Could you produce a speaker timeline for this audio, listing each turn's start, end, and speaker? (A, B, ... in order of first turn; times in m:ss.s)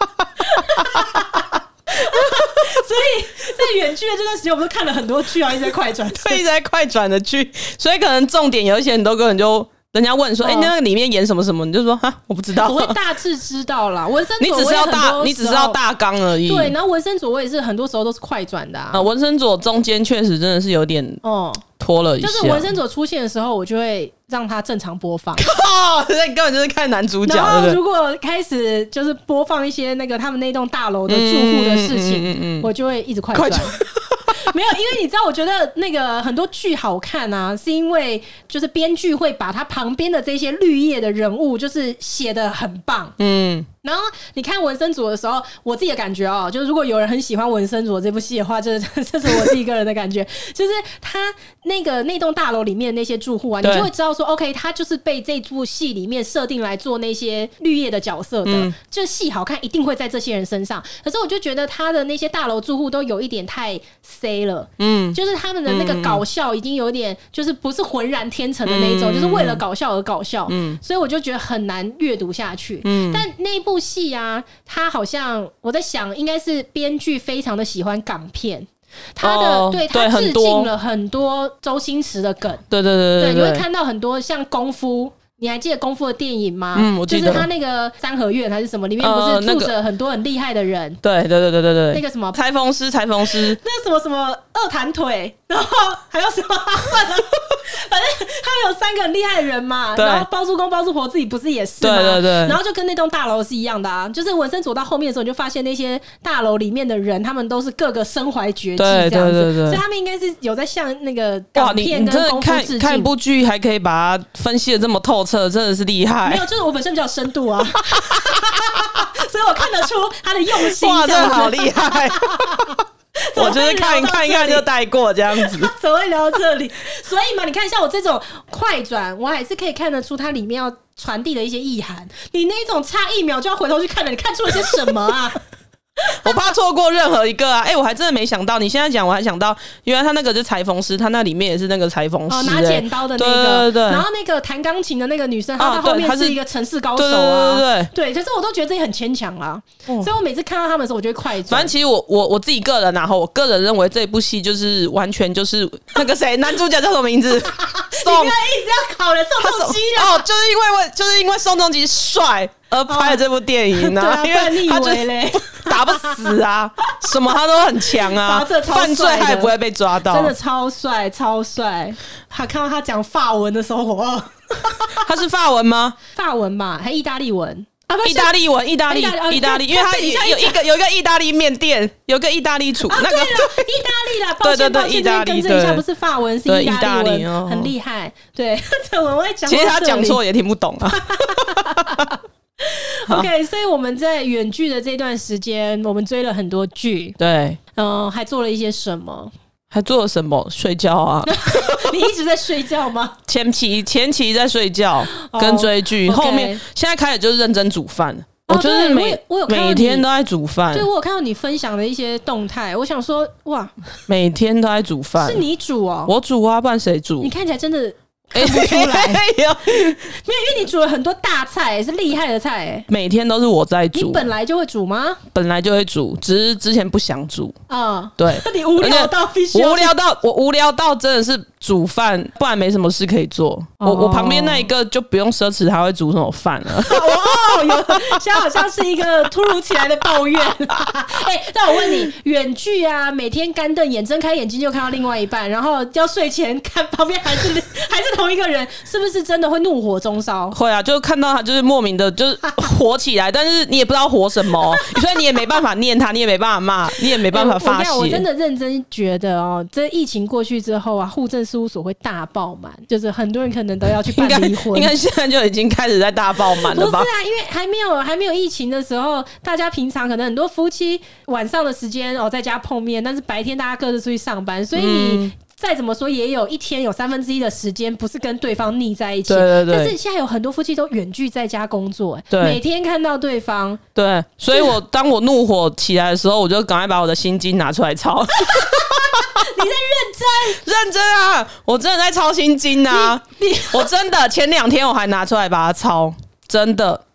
0:00.4-0:06.4 A
0:00.8-0:01.1 B
0:06.1-0:13.0 B
0:10.4-0:10.7 A
0:12.5-0:15.8 A
0:14.4-0:16.7 B
0:16.4-0:19.1 A
0:18.9-0:21.2 B
0:21.2-0:21.7 A
0:21.8-0:22.7 B
0:22.2-0:25.5 A
0:25.4-0:27.8 B
0:27.2-0:33.8 A
0:31.1-0:32.7 B
0:33.3-0:34.4 B
0:34.3-0:43.2 A
0:43.2-0:43.7 B
0:43.8-1:22.6 A
0:53.6-0:53.9 B
0:58.5-0:58.7 B
1:04.8-1:06.2 B
1:08.6-1:09.6 B
1:10.5-1:10.8 B
1:12.8-1:13.2 B
1:19.2-1:20.7 B
1:22.7-1:23.6 B
1:23.2-1:31.0 A
1:26.8-1:27.5 B
1:29.0-1:29.7 B
1:31.0-1:33.6 B
1:31.9-1:32.4 A
1:33.2-1:53.1 A
1:40.0-1:40.3 B
1:41.8-1:42.6 B
1:48.8-1:49.8 B
1:51.6-1:56.4 B
1:56.2-2:04.7 A
1:57.9-1:58.8 B
2:00.6-2:02.8 B
2:03.4-2:05.7 B
2:05.3-2:15.4 A
2:16.1-2:16.5 A
2:16.2-2:24.0 B
2:22.3-2:31.7 A
2:25.6-2:26.4 B
2:27.0-2:27.9 B
2:31.5-2:38.4 B
2:37.6-2:40.2 A
2:39.4-2:50.3 B
2:42.9-2:43.2 A
2:43.7-2:46.4 A
2:47.9-2:55.0 A
2:54.9-2:56.0 B
2:56.1-2:58.3 A
2:58.0-3:03.7 B
2:58.9-3:00.6 A
3:02.9-3:10.2 A
3:04.4-3:05.8 B
3:06.5-3:07.7 B
3:09.5-3:12.1 B
3:10.9-3:17.2 A
3:17.2-3:17.6 B
3:17.8-3:19.3 A
3:19.7-3:22.0 B
3:21.2-3:23.2 A
3:23.3-3:30.9 B
3:25.1-3:26.6 A
3:28.5-3:30.0 A
3:30.7-3:33.7 A
3:34.1-3:35.4 B
3:35.2-3:36.1 A
3:36.1-3:37.3 B
3:37.2-3:42.9 A
3:38.4-3:40.0 B
3:42.9-3:44.3 B
3:43.9-3:45.2 A
3:45.3-3:47.6 B
3:47.7-3:49.9 A
3:48.2-3:58.2 B
3:53.8-3:54.7 A
3:56.8-4:10.6 A
4:10.5-4:18.2 B
4:17.2-4:24.9 A
4:24.1-4:27.1 B
4:26.5-4:43.8 A
4:34.8-4:35.3 B
4:39.3-4:40.0 B
4:42.3-4:42.6 B
4:44.0-4:49.5 B
4:48.5-4:50.6 A
4:50.5-4:57.0 B
4:52.9-4:53.9 A